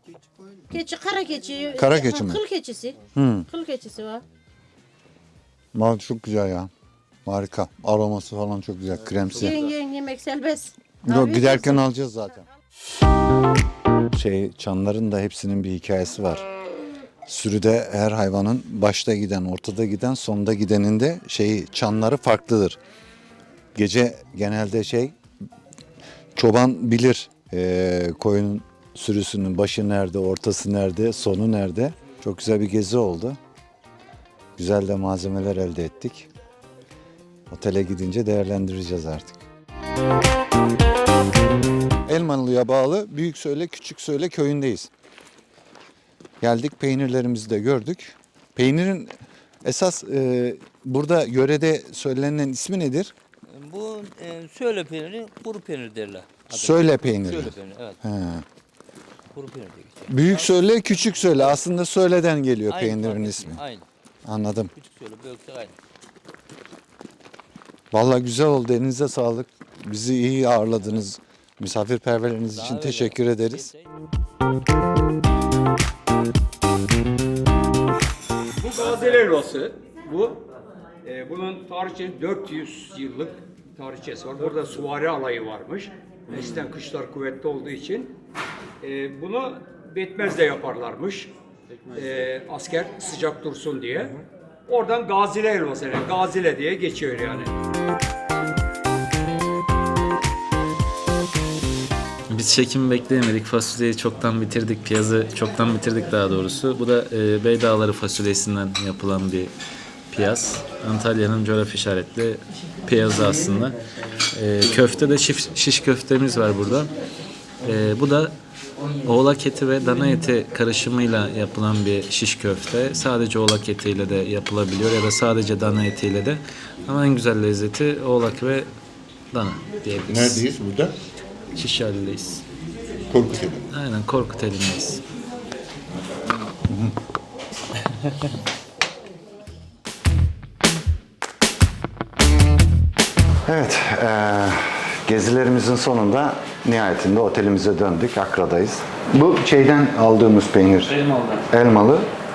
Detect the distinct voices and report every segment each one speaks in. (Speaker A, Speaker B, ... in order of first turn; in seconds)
Speaker A: 0.7-3.0, 3.5-4.2, 9.3-11.8
Speaker B: 1.7-2.4, 3.1-3.5, 5.7-6.7, 7.2-9.6, 11.0-12.5, 14.1-16.4, 17.2-22.8, 23.7-25.1, 26.3-33.4, 34.6-36.3, 37.5-39.5, 42.0-44.9, 46.4-49.1, 49.6-53.1, 56.5-58.4, 60.1-63.6, 64.2-64.7, 67.9-73.7, 130.1-130.9, 133.1-133.7, 136.7-136.9, 143.4-150.9, 151.5-152.1
Speaker C: 53.5-58.0, 59.3-60.6, 61.2-61.5, 62.7-63.9, 64.7-65.8, 72.5-73.9
Speaker D: 78.6-80.4, 81.0-88.1, 88.8-91.3, 91.9-97.5
Speaker E: 102.3-109.5, 110.1-113.8, 114.3-116.9, 117.6-118.3, 119.0-128.7, 129.3-130.4, 131.5-132.4, 133.7-135.0, 150.9-151.4